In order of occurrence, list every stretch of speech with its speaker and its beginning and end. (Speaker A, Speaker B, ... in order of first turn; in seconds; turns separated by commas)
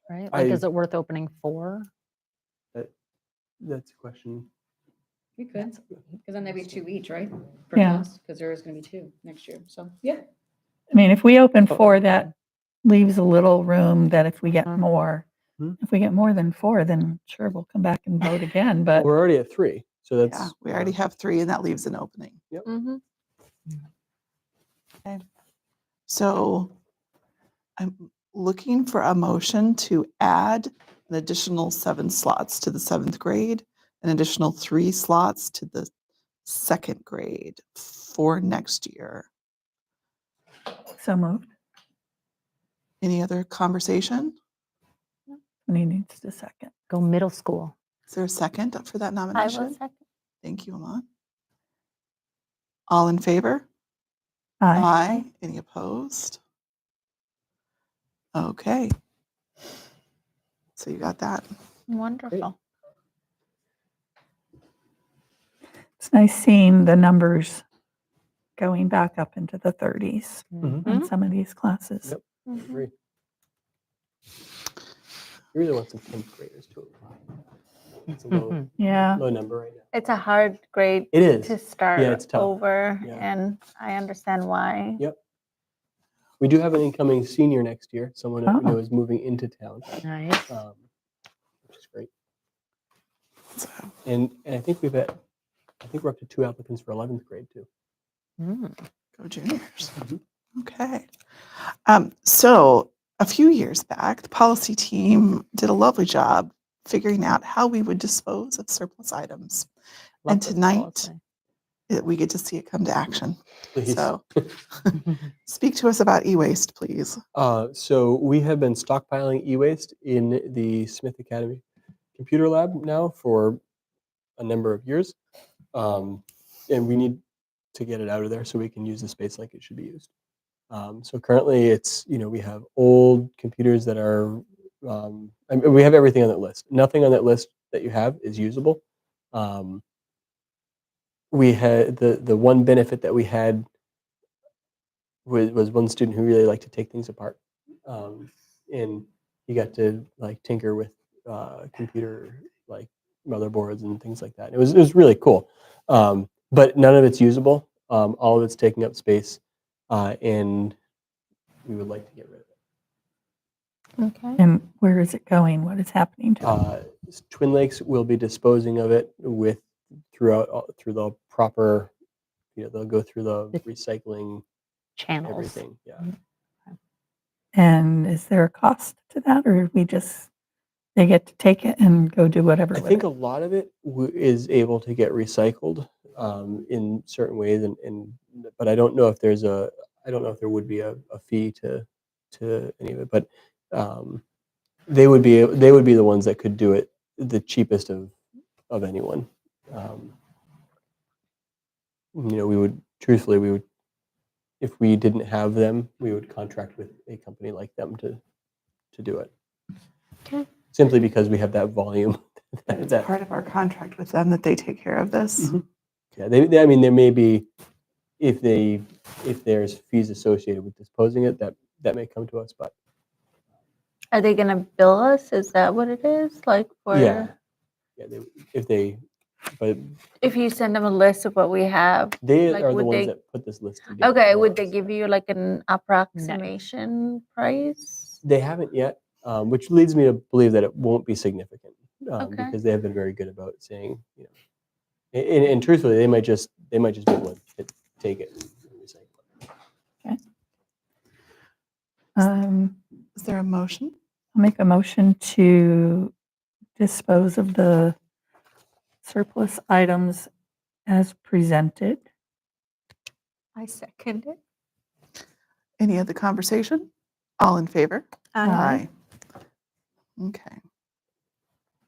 Speaker A: 0.1-1.9, Speaker B: 0.3-0.6, Speaker B: 3.6-4.5, Speaker C: 5.4-10.2, Speaker D: 7.7-8.1, Speaker D: 10.9-12.3, Speaker D: 12.8-15.2, Speaker D: 15.8-19.1, Speaker B: 18.9-20.9, Speaker E: 20.3-22.4, Speaker F: 22.7-23.0, Speaker E: 26.1-26.7, Speaker E: 27.8-35.9, Speaker E: 36.4-39.3, Speaker D: 41.0-41.5, Speaker E: 43.0-44.4, Speaker D: 45.7-46.7, Speaker A: 46.9-47.7, Speaker E: 48.1-49.8, Speaker F: 49.3-50.0, Speaker E: 50.4-51.0, Speaker E: 52.9-53.6, Speaker D: 54.6-54.9, Speaker E: 54.8-56.4, Speaker E: 58.3-58.9, Speaker E: 60.8-61.5, Speaker F: 61.9-62.5, Speaker D: 66.0-67.6, Speaker D: 68.6-72.1, Speaker A: 70.6-71.1, Speaker B: 70.6-70.9, Speaker B: 72.0-72.9, Speaker B: 75.5-77.1, Speaker B: 78.1-79.9, Speaker D: 78.8-79.2, Speaker F: 79.9-85.0, Speaker B: 81.1-83.2, Speaker B: 86.4-90.8, Speaker D: 88.5-88.8, Speaker A: 90.0-90.5, Speaker B: 91.7-92.1, Speaker E: 93.5-93.9, Speaker B: 94.0-95.2, Speaker B: 95.8-97.7, Speaker A: 98.4-98.8, Speaker E: 99.2-100.0, Speaker E: 100.5-101.1, Speaker E: 101.8-109.7, Speaker A: 110.2-111.2, Speaker E: 110.2-111.1, Speaker E: 111.9-114.2, Speaker B: 113.7-114.1, Speaker E: 114.8-117.2, Speaker B: 117.3-121.6, Speaker B: 122.1-123.6, Speaker B: 124.4-125.1, Speaker B: 125.7-127.2, Speaker B: 127.7-130.1, Speaker B: 130.7-138.8, Speaker B: 139.3-139.8, Speaker B: 141.3-143.7, Speaker B: 145.2-160.8, Speaker B: 161.6-162.5, Speaker F: 164.0-164.4, Speaker D: 164.4-166.6, Speaker B: 166.4-171.9, Speaker B: 172.6-174.4, Speaker A: 175.0-175.6, Speaker B: 175.2-176.1, Speaker D: 177.5-180.3, Speaker D: 180.9-183.0, Speaker B: 182.7-194.2, Speaker B: 194.9-198.1, Speaker B: 198.7-200.1, Speaker B: 202.1-203.6, Speaker B: 204.6-208.2, Speaker B: 208.9-209.3, Speaker B: 210.7-213.1, Speaker E: 212.7-215.5, Speaker B: 216.1-217.5, Speaker B: 218.2-222.7, Speaker F: 224.1-227.3, Speaker B: 226.9-227.3, Speaker B: 227.9-229.0, Speaker B: 229.6-230.0, Speaker F: 230.2-233.1, Speaker B: 232.2-234.9, Speaker F: 234.0-238.2, Speaker A: 236.2-236.5, Speaker B: 238.2-244.3, Speaker F: 242.2-242.6, Speaker B: 245.1-249.2, Speaker D: 252.2-252.8, Speaker E: 253.2-253.9, Speaker D: 254.3-256.1, Speaker D: 256.8-257.9, Speaker D: 259.0-260.3, Speaker D: 260.9-262.0, Speaker F: 263.6-264.4, Speaker E: 265.8-266.9, Speaker E: 267.4-268.9, Speaker D: 268.4-268.8, Speaker E: 270.2-270.6